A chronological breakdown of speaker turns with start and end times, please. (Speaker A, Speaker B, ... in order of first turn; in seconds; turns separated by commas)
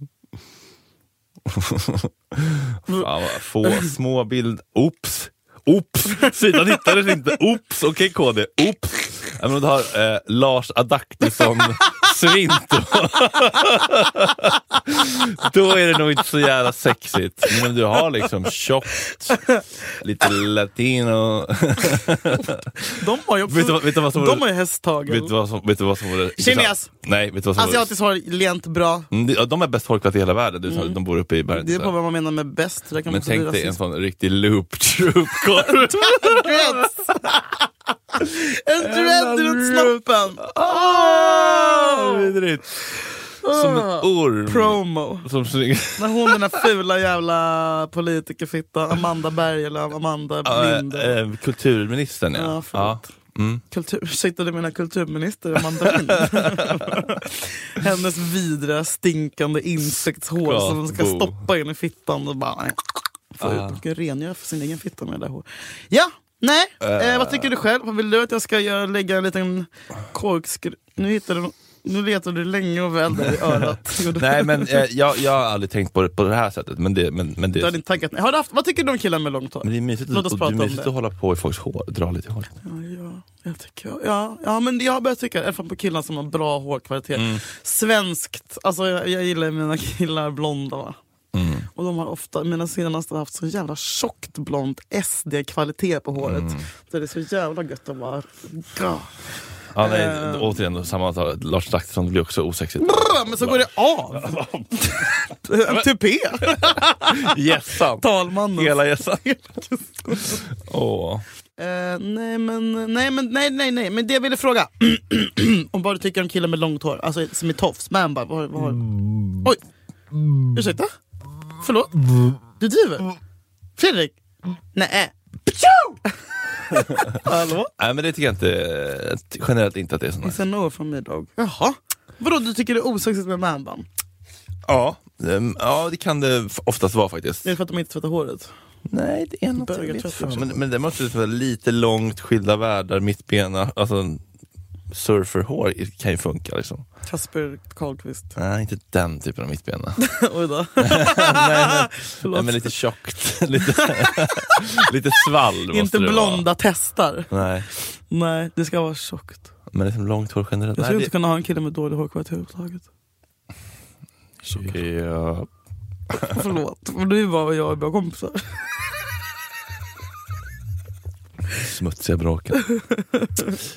Speaker A: 1.5-24.5, Speaker B: 22.9-25.4, Speaker A: 25.1-27.9, Speaker B: 26.4-26.9, Speaker B: 27.5-29.1, Speaker A: 29.1-31.9, Speaker B: 30.7-31.0, Speaker B: 31.5-33.8, Speaker A: 33.1-36.9, Speaker B: 35.6-42.3, Speaker A: 38.2-46.6, Speaker B: 43.4-45.3, Speaker B: 46.0-51.2, Speaker A: 50.4-53.6, Speaker B: 52.4-53.1, Speaker B: 53.7-74.9, Speaker A: 55.6-57.2, Speaker A: 60.4-61.5, Speaker A: 63.4-63.8, Speaker A: 66.8-67.5, Speaker A: 74.1-77.8, Speaker B: 77.5-80.9, Speaker A: 79.6-82.6, Speaker B: 82.6-91.0, Speaker A: 87.1-87.4, Speaker A: 91.3-91.7, Speaker B: 91.7-99.1, Speaker A: 96.2-96.7, Speaker A: 99.7-105.0, Speaker B: 99.8-100.6, Speaker B: 102.8-107.3, Speaker A: 106.4-109.3, Speaker B: 108.0-110.4, Speaker A: 110.2-111.2, Speaker B: 111.6-119.6, Speaker A: 118.9-119.3, Speaker B: 120.5-120.9, Speaker B: 121.6-123.1, Speaker B: 123.8-124.2, Speaker B: 124.7-127.7, Speaker A: 126.8-130.4, Speaker B: 130.2-133.9, Speaker A: 134.7-137.6, Speaker B: 137.4-138.5, Speaker A: 138.9-144.2, Speaker B: 139.6-140.6, Speaker A: 144.9-146.8, Speaker B: 147.1-148.4, Speaker A: 148.4-150.0, Speaker B: 150.0-152.7, Speaker A: 150.8-156.5, Speaker B: 153.7-154.6, Speaker B: 155.7-159.5, Speaker A: 157.3-157.7, Speaker A: 159.7-161.1, Speaker B: 160.7-162.9, Speaker A: 164.4-165.5, Speaker A: 166.1-166.4, Speaker B: 166.2-168.7, Speaker A: 171.5-172.6, Speaker B: 172.7-173.6